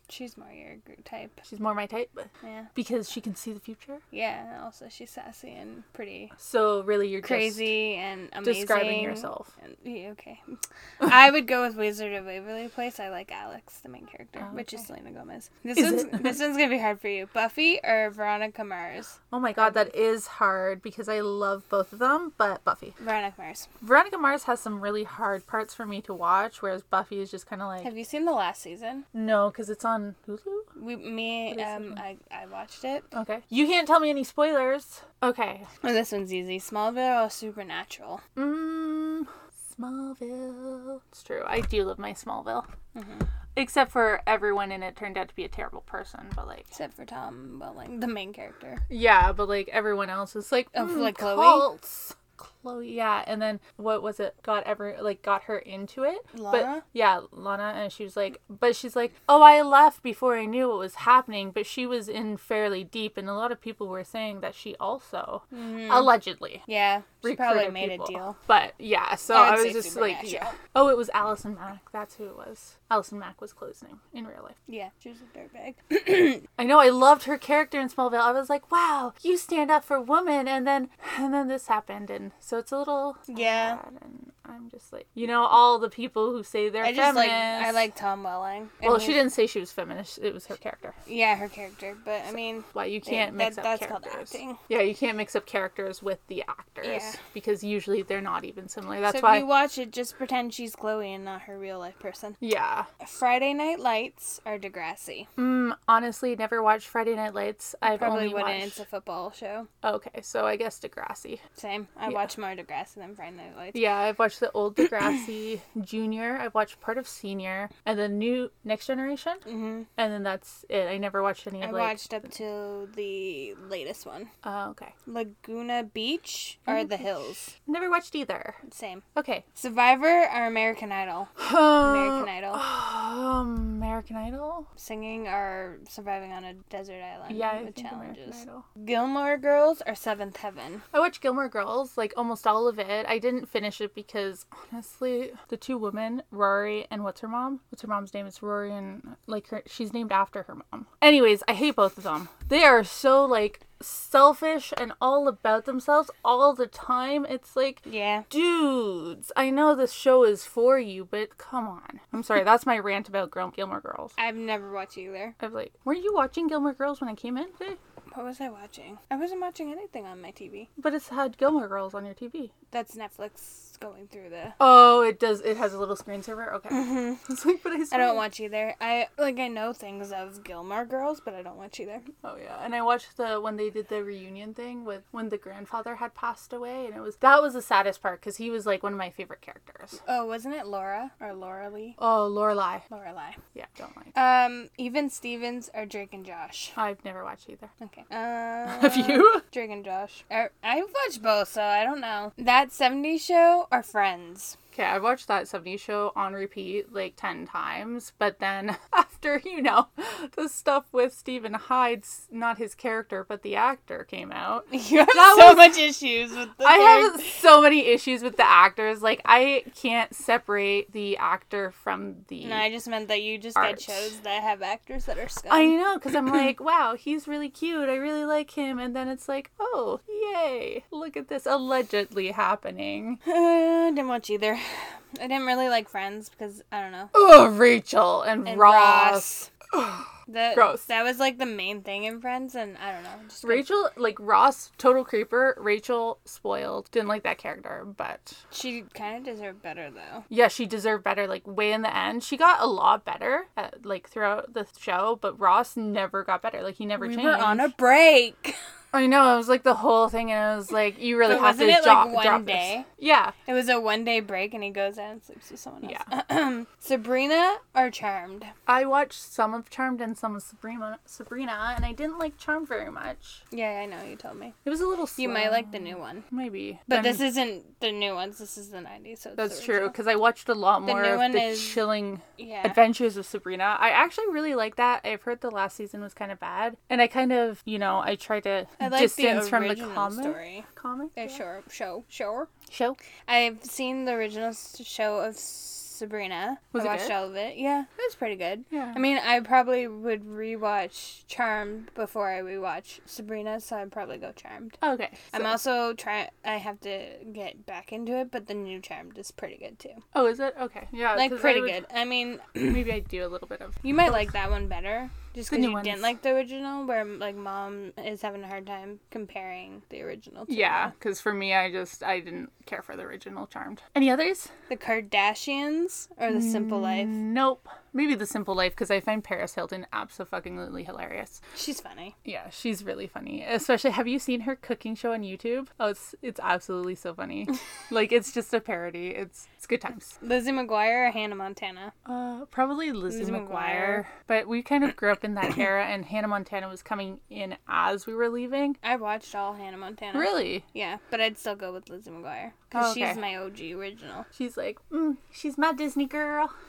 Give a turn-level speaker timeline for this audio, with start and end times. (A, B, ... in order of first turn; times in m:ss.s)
0:00.1-0:01.4 A
0:01.4-0:04.0 B
0:02.4-0:02.7 A
0:04.1-0:06.3 A
0:06.4-0:07.7 B
0:07.2-0:19.8 A
0:08.4-0:09.5 B
0:14.4-0:14.9 B
0:15.7-0:16.4 B
0:19.3-0:23.0 B
0:23.0-0:23.7 A
0:23.8-0:27.9 B
0:27.8-0:29.0 A
0:29.1-0:30.7 B
0:30.8-0:33.0 A
0:31.5-0:32.0 B
0:33.1-0:35.7 B
0:35.8-0:38.2 A
0:38.4-0:42.7 B
0:42.9-0:43.2 A
0:43.5-0:46.7 B
0:46.7-0:48.8 A
0:48.9-1:06.6 B
0:50.7-0:51.7 A
0:56.3-0:56.8 A
1:05.5-1:08.4 A
1:07.2-1:14.6 B
1:09.3-1:10.6 A
1:14.7-1:16.4 A
1:16.6-1:27.9 B
1:23.3-1:23.8 A
1:26.8-1:29.3 A
1:28.8-1:31.0 B
1:31.0-1:34.6 A
1:32.7-1:39.5 B
1:36.8-1:37.2 A
1:39.1-1:42.4 A
1:42.4-1:42.9 B
1:43.0-1:45.3 A
1:45.4-1:48.8 B
1:47.8-1:49.7 A
1:49.8-1:51.4 B
1:51.6-1:53.8 A
1:53.7-1:59.4 B
1:59.4-1:59.9 A
2:00.0-2:02.0 B
2:01.6-2:04.3 A
2:04.4-2:04.9 B
2:05.1-2:07.5 A
2:06.7-2:08.6 B
2:08.7-2:09.0 A
2:09.2-2:09.4 B
2:09.6-2:12.6 A
2:11.4-2:14.7 B
2:14.8-2:20.8 A
2:17.3-2:18.6 B
2:20.9-2:44.1 B
2:37.8-2:38.3 A
2:44.2-2:45.4 A
2:45.4-2:47.8 B
2:48.1-2:50.7 A
2:50.8-2:52.5 B
2:52.7-2:54.6 A
2:54.6-2:58.2 B
2:56.7-2:57.2 A
2:57.9-3:02.1 A
3:02.2-3:10.0 B
3:10.0-3:12.0 A
3:12.0-3:12.8 B
3:12.9-3:13.4 A
3:13.5-3:14.1 B
3:14.1-3:16.8 A
3:16.8-3:17.7 B
3:17.8-3:24.6 A
3:18.7-3:19.4 B
3:24.7-3:35.8 B
3:34.7-3:37.3 A
3:36.6-3:42.6 B
3:42.4-3:45.8 A
3:43.6-3:44.1 B
3:45.5-3:53.2 B
3:53.2-3:57.1 A
3:57.1-4:00.9 B
3:58.4-3:59.5 A
4:00.3-4:03.7 A
4:03.4-4:08.4 B
4:08.5-4:10.2 A
4:10.3-4:17.7 B
4:17.0-4:18.6 A
4:18.9-4:23.3 B
4:21.2-4:22.9 A
4:23.4-4:28.5 A
4:25.8-4:26.1 B
4:28.7-4:33.4 B
4:33.5-4:34.6 A
4:34.6-4:37.3 B
4:35.2-4:36.2 A
4:36.9-4:40.0 A
4:39.4-4:51.4 B
4:40.8-4:41.8 A
4:42.4-4:42.8 A
4:48.8-4:52.5 A
4:52.7-4:53.0 B
4:53.3-5:04.8 A
4:56.7-4:57.2 B
4:58.7-4:59.0 B
5:04.8-5:05.6 B
5:05.3-5:10.0 A
5:10.1-5:11.8 B
5:11.1-5:12.9 A
5:12.7-5:14.3 B
5:13.8-5:20.9 A
5:15.5-5:16.1 B
5:20.5-5:24.5 B
5:24.7-5:27.2 A
5:26.3-5:31.4 B
5:31.5-5:32.1 A
5:32.2-5:40.1 B
5:40.2-5:41.9 A
5:42.0-5:48.8 B
5:43.1-5:44.0 A
5:48.8-5:54.3 A
5:50.1-5:50.6 B
5:52.7-5:53.2 B
5:54.3-5:56.5 B